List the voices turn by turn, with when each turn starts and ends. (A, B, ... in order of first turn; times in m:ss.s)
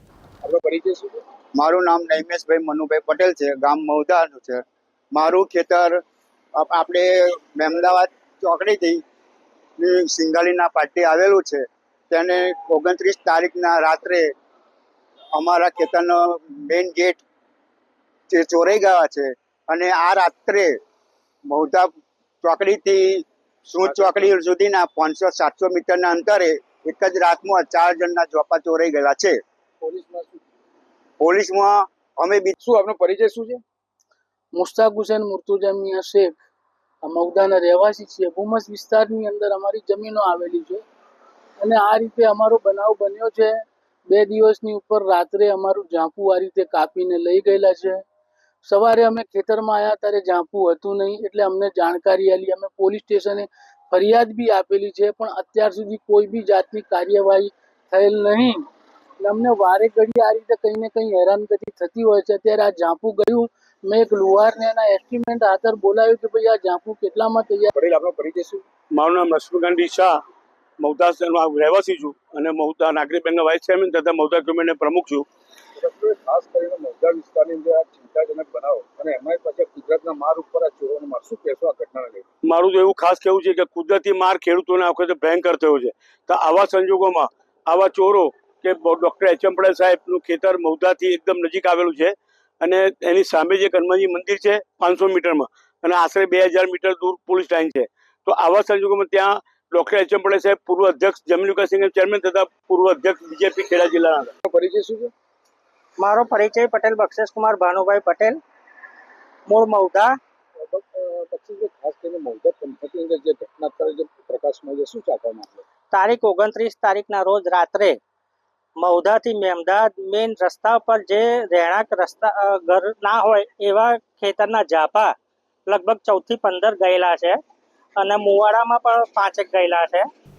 0:00.4-0:01.2 A
0:01.6-0:06.0 B
0:06.6-0:09.0 B
0:09.8-0:14.3 B
0:15.4-0:17.2 B
0:18.3-0:20.8 B
0:21.5-0:21.9 B
0:22.4-0:29.4 B
0:23.8-0:24.3 A
0:29.8-0:30.4 A
0:31.2-0:32.6 B
0:32.6-0:33.6 A
0:34.5-0:36.3 C
0:37.0-0:40.8 C
0:41.6-0:48.0 C
0:48.7-0:58.6 C
0:59.2-1:07.7 C
1:07.7-1:08.6 A
1:08.9-1:10.2 D
1:10.8-1:15.3 D
1:15.8-1:22.2 A
1:22.4-1:44.3 D
1:44.4-1:45.1 A
1:46.0-1:48.4 E
1:49.5-1:50.2 E
1:50.6-1:55.6 A
1:55.9-1:58.0 E
1:58.8-2:05.1 E
2:05.7-2:07.4 E
2:08.0-2:10.1 E